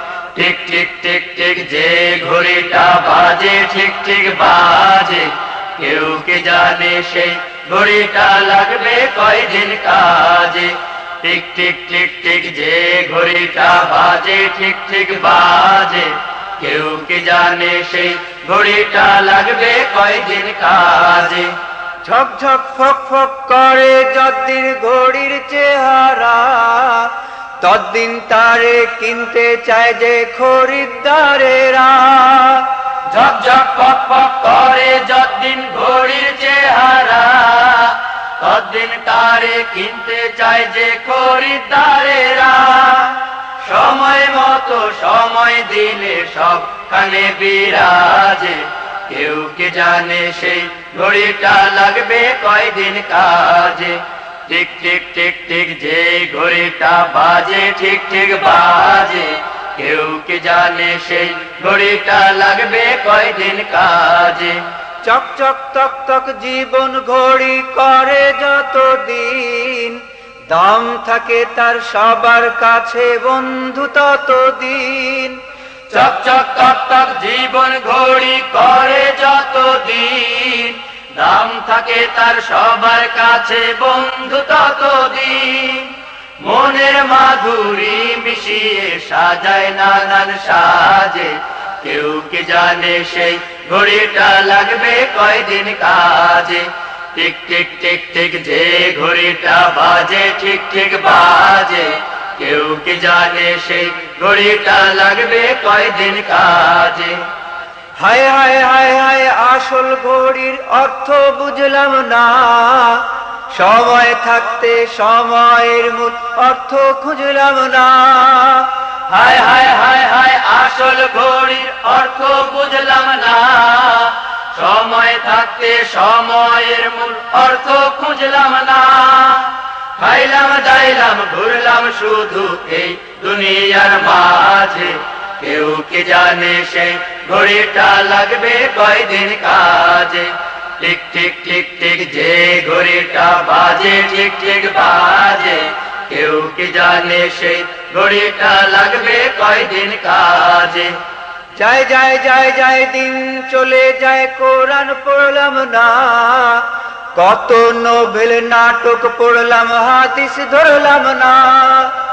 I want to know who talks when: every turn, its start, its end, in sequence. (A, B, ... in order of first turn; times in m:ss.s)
0:00.4-0:21.5 A
0:22.0-0:32.7 B
0:33.1-1:04.6 A
1:05.0-1:15.4 B
1:15.9-1:47.2 A
1:48.0-1:58.7 B
1:59.1-2:30.9 A
2:31.6-2:41.9 B